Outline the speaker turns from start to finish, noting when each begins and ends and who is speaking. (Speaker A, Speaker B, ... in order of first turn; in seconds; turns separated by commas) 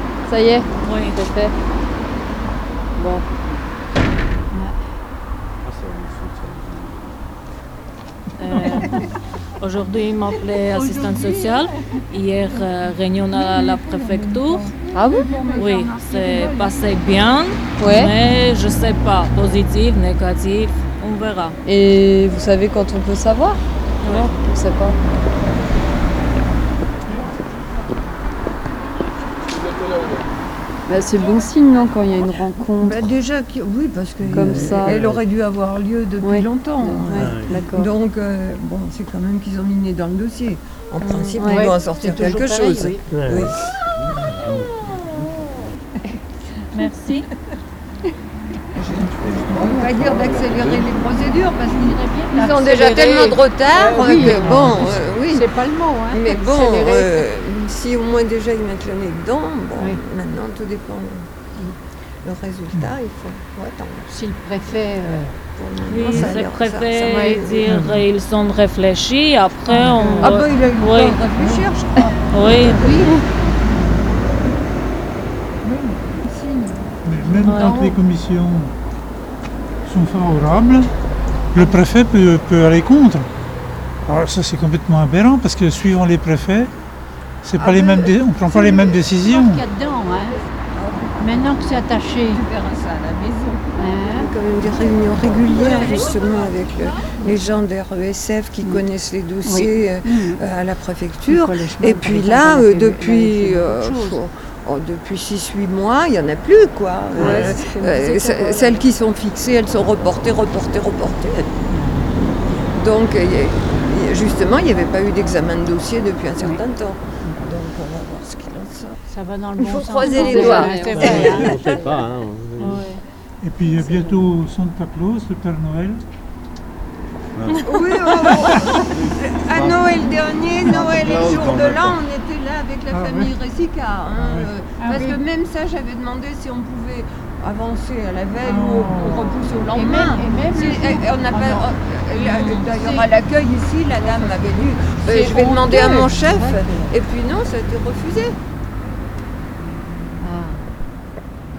Speaker A: 0.3-1.5, Speaker B: 0.7-1.3, Speaker A: 3.0-3.3, Speaker C: 5.6-7.3, Speaker B: 8.4-9.0, Speaker B: 9.6-14.7, Speaker A: 14.9-15.4, Speaker D: 15.1-15.8, Speaker E: 15.3-15.7, Speaker B: 15.5-21.6, Speaker A: 17.8-18.1, Speaker A: 21.7-25.0, Speaker B: 24.0-24.4, Speaker A: 30.9-33.0, Speaker E: 32.8-43.6, Speaker C: 34.3-35.2, Speaker A: 34.3-35.0, Speaker A: 36.2-37.9, Speaker C: 37.1-37.6, Speaker A: 41.0-41.7, Speaker D: 41.4-43.1, Speaker C: 43.1-43.5, Speaker C: 44.1-44.7, Speaker B: 46.7-47.3, Speaker E: 48.8-55.5, Speaker D: 51.6-57.3, Speaker F: 54.4-55.0, Speaker E: 56.1-61.3, Speaker E: 62.2-67.7, Speaker D: 64.1-65.3, Speaker B: 65.8-71.2, Speaker D: 67.0-67.5, Speaker F: 67.6-68.0, Speaker D: 69.7-70.4, Speaker E: 70.2-73.2, Speaker B: 72.2-73.1, Speaker D: 72.7-73.2, Speaker E: 75.6-76.8, Speaker F: 77.0-78.7, Speaker B: 77.3-77.8, Speaker D: 77.4-77.9, Speaker F: 79.8-80.9, Speaker F: 81.5-83.3, Speaker F: 84.0-86.7, Speaker F: 87.4-89.6, Speaker E: 87.6-88.2, Speaker D: 88.5-90.4, Speaker E: 90.7-111.7, Speaker D: 91.2-92.4, Speaker D: 93.8-94.3, Speaker B: 95.6-97.0, Speaker D: 95.6-96.2, Speaker D: 99.4-100.4, Speaker D: 101.3-104.2, Speaker A: 107.1-108.9, Speaker D: 107.2-107.5, Speaker D: 111.7-112.0, Speaker E: 112.2-119.0, Speaker D: 119.1-121.8, Speaker E: 119.6-121.8, Speaker A: 120.0-121.4, Speaker C: 120.9-122.9, Speaker D: 122.6-123.0, Speaker F: 123.4-126.0, Speaker D: 123.6-124.3, Speaker C: 127.4-128.3, Speaker E: 127.5-148.3, Speaker F: 128.2-128.5, Speaker C: 128.9-132.0, Speaker F: 132.9-133.3, Speaker F: 134.2-134.5, Speaker D: 134.8-135.2, Speaker D: 138.4-139.0, Speaker F: 138.4-139.3, Speaker D: 139.6-143.2, Speaker D: 144.0-146.9, Speaker D: 150.2-150.6